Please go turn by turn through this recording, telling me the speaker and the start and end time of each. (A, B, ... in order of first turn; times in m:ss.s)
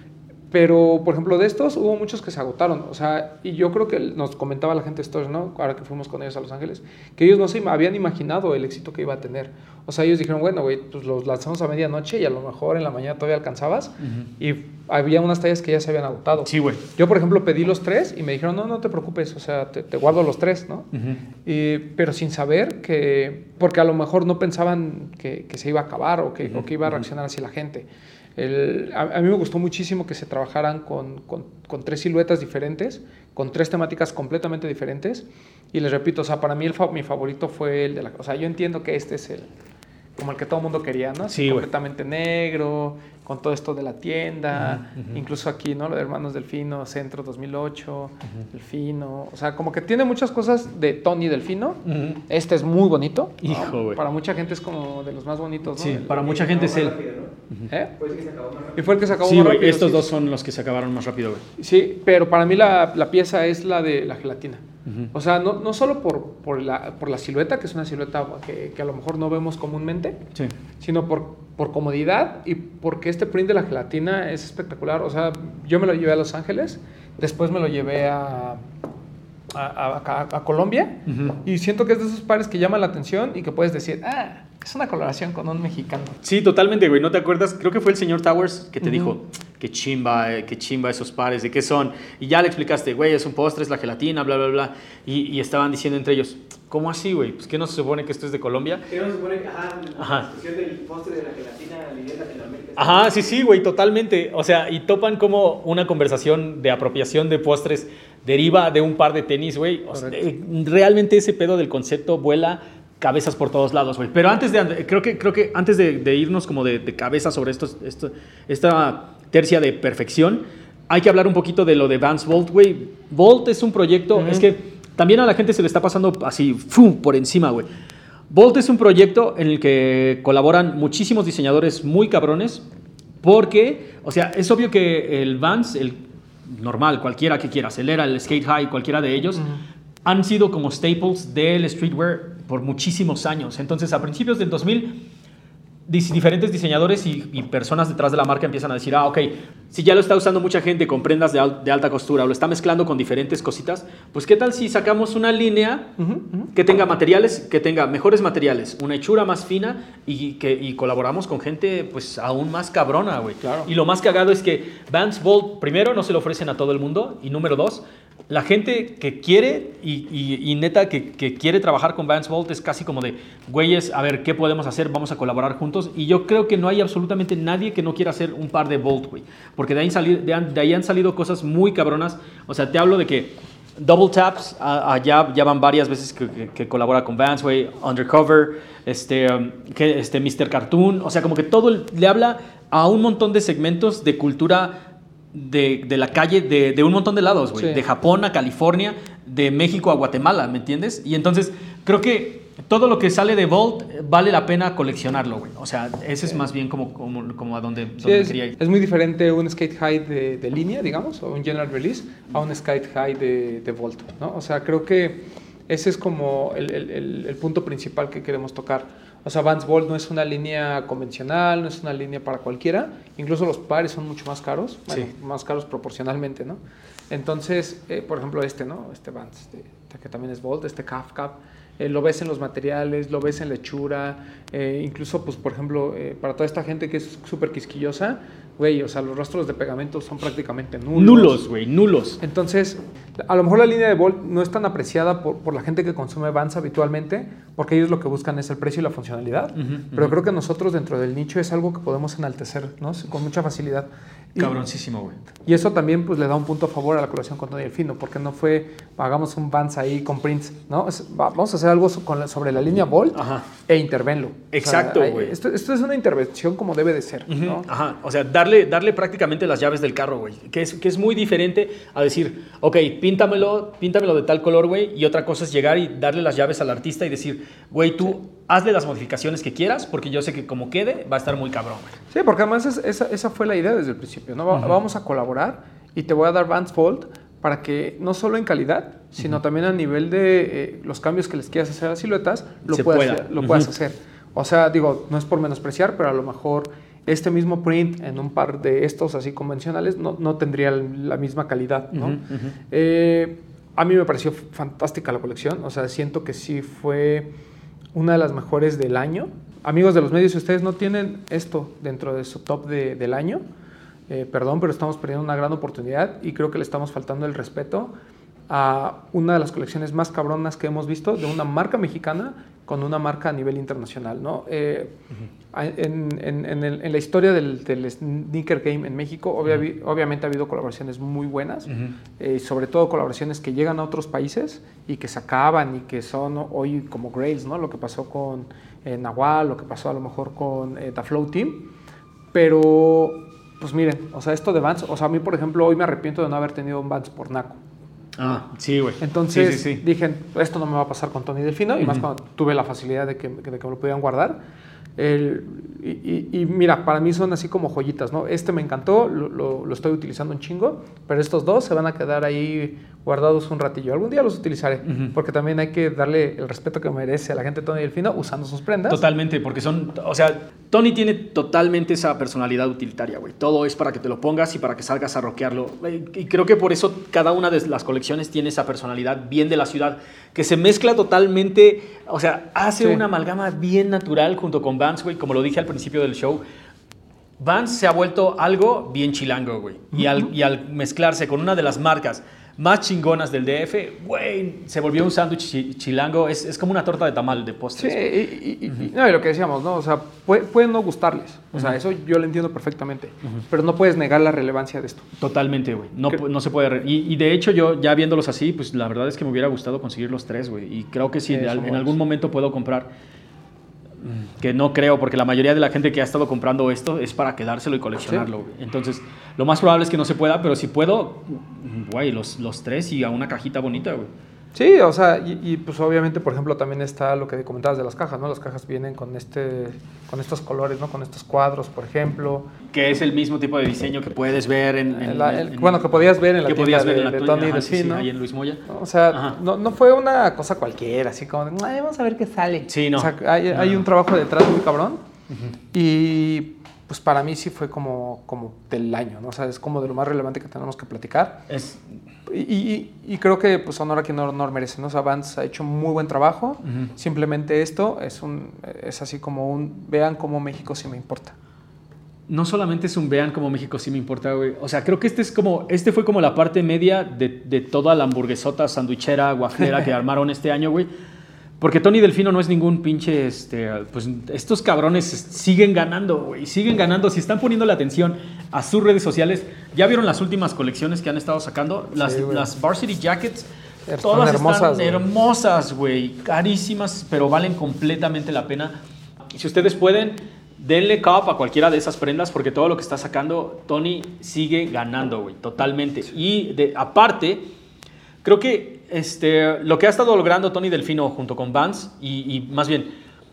0:00.5-0:20.9 A
0:16.4-0:16.8 B
0:20.9-0:21.2 B
0:21.4-0:39.5 A
0:40.2-0:56.3 A
0:41.3-0:41.7 B
0:44.6-0:45.2 B
0:51.9-0:52.2 B
0:53.4-0:54.0 B
0:55.7-0:57.0 B
0:56.1-0:57.4 C
0:57.7-0:58.0 A
0:58.0-0:58.9 C
0:58.8-1:00.1 A
0:59.2-1:01.4 B
1:01.6-1:10.2 A
1:04.9-1:05.1 B
1:10.8-1:18.6 A
1:19.5-1:26.2 A
1:21.1-1:21.4 B
1:26.2-1:38.9 B
1:28.8-1:29.2 A
1:38.9-1:43.2 C
1:40.0-1:40.3 B
1:42.8-2:07.7 B
1:49.9-1:50.2 A
2:04.2-2:04.5 A
2:08.3-2:12.6 B
2:13.2-2:19.5 B
2:20.0-2:25.1 B
2:25.9-2:35.9 B
2:36.0-2:36.5 A
2:36.5-3:14.8 B
2:43.4-2:43.7 A
3:15.3-3:28.6 B
3:17.6-3:17.8 A
3:28.0-4:01.4 A
4:01.0-4:02.2 B
4:02.2-4:14.6 A
4:09.6-4:10.2 B
4:14.4-4:15.2 B
4:15.4-4:27.7 A
4:23.2-4:23.5 B
4:24.5-4:25.4 B
4:27.3-4:42.0 B
4:42.1-5:07.3 A
4:52.7-4:53.7 B
5:01.9-5:02.6 B
5:07.9-5:13.4 A
5:14.1-5:17.9 A
5:18.5-5:25.0 A
5:25.5-5:41.7 A
5:42.3-5:47.6 A
5:48.2-5:49.8 B
5:49.0-5:54.4 A
5:51.8-5:52.1 B
5:55.0-6:09.0 A
6:04.9-6:05.1 B
6:08.9-6:26.4 B
6:22.8-6:23.0 A
6:27.4-6:38.0 B
6:29.9-6:30.3 A
6:37.8-6:45.1 A
6:45.2-6:52.9 B
6:51.3-6:52.0 A
6:54.0-7:04.1 B
7:04.6-7:12.5 A
7:12.7-7:19.4 B
7:14.9-7:18.1 A
7:18.7-7:25.0 A
7:22.7-7:23.8 B
7:25.7-7:31.5 A
7:31.5-7:31.9 B
7:32.3-7:41.4 A
7:42.3-7:50.9 B
7:51.6-8:03.5 B
8:02.0-8:02.5 A
8:03.9-8:05.0 A
8:04.0-8:08.8 B
8:09.3-8:17.5 B
8:18.2-8:22.9 B